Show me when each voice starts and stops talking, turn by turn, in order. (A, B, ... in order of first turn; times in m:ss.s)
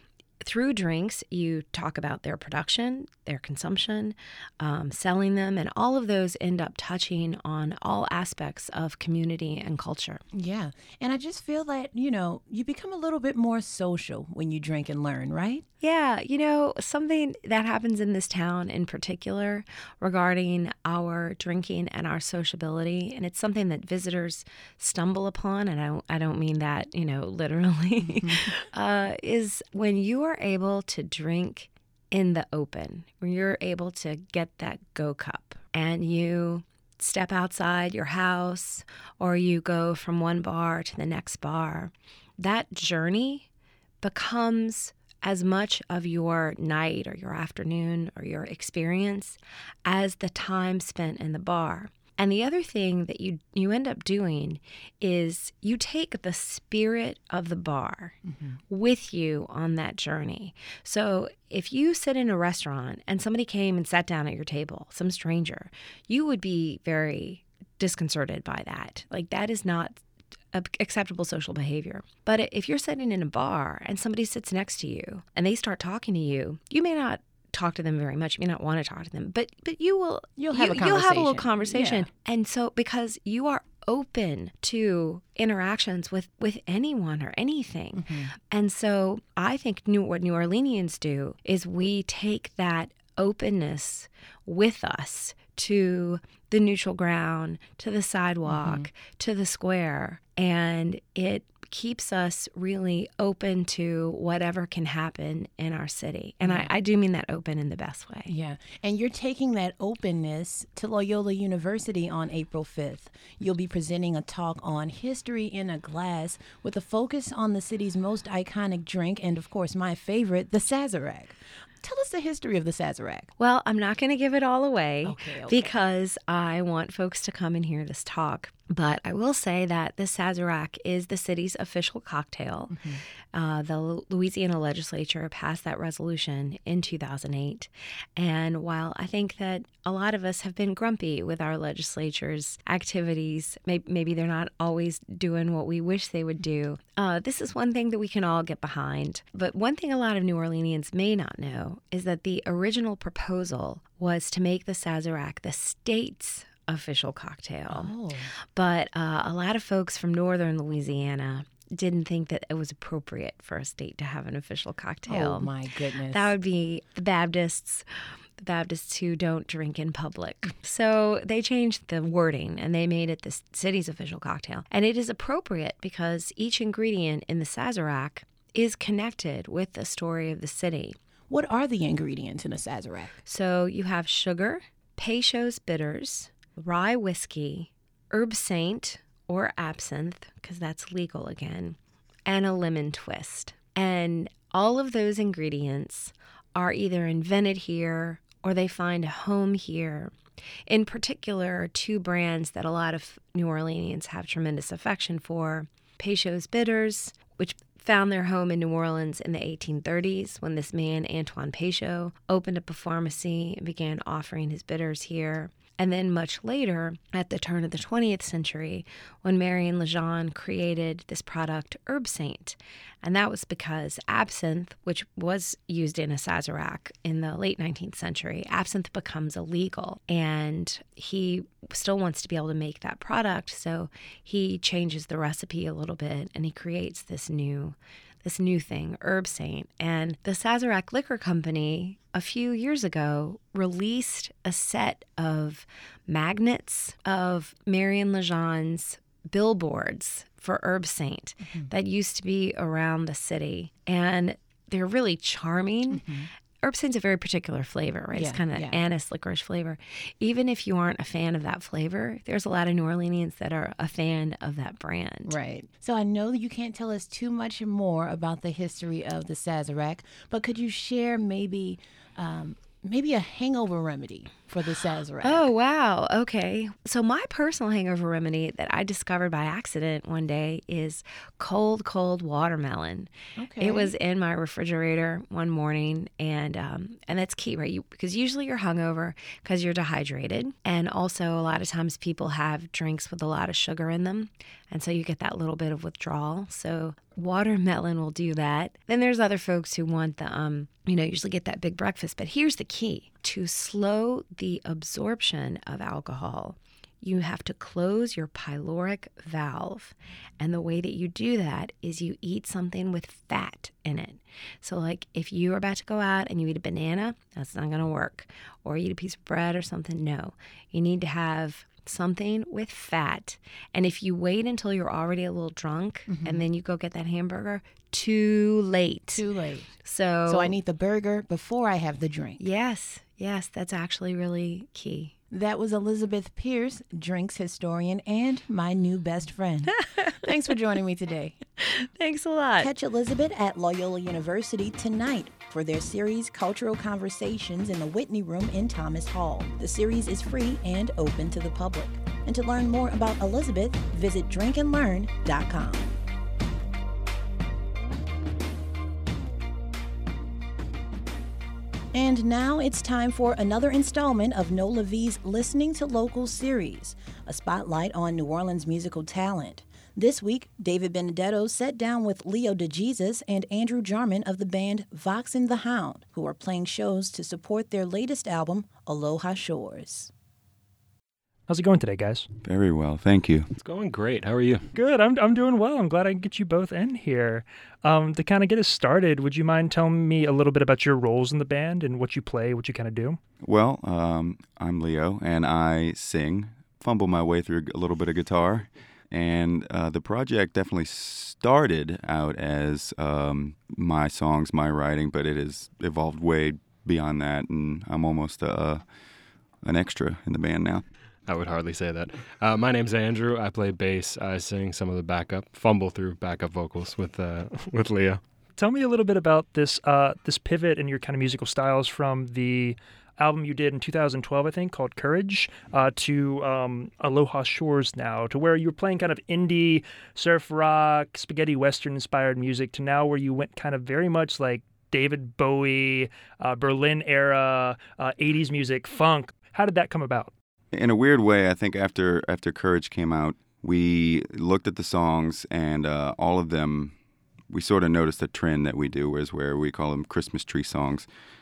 0:00.4-0:10.2 A
0:10.3-0:15.6 B
0:15.8-0:43.5 A
0:28.2-0:28.5 B
0:44.0-0:58.2 A
0:58.3-0:58.6 B
0:58.7-1:10.0 A
1:10.5-1:48.3 A
1:20.4-1:22.1 B
1:28.0-1:28.3 B
1:38.4-1:38.9 B
1:46.4-1:46.7 B
1:48.3-2:03.3 B
2:03.4-2:12.8 A
2:05.0-2:05.7 B
2:12.7-2:13.0 B
2:13.3-2:37.9 A
2:37.7-2:38.3 B
2:38.5-2:45.5 A
2:45.1-2:46.3 B
2:46.1-2:47.8 A
2:48.4-3:01.0 A
3:01.3-3:03.2 B
3:03.2-3:20.2 A
3:20.7-4:16.0 A
4:15.9-4:16.3 B
4:16.6-4:25.4 A
4:18.1-4:18.8 B
4:25.3-4:35.5 B
4:35.2-5:29.2 A
4:43.4-4:43.9 B
5:26.1-5:26.4 B
5:29.1-5:29.7 B
5:29.8-5:30.6 A
5:30.3-5:32.4 B
5:32.4-5:35.1 A
5:35.3-5:41.4 B
5:39.8-5:40.2 A
5:41.6-5:42.7 A
5:42.6-5:56.0 B
6:01.9-6:20.1 B
6:21.5-6:22.3 C
6:22.4-6:23.5 D
6:23.6-6:24.7 E
6:24.8-6:33.2 C
6:33.4-6:48.8 D
6:49.6-6:50.8 D
6:51.3-6:58.2 E
6:58.6-7:20.3 C
7:20.7-7:27.0 D
7:27.5-7:31.1 D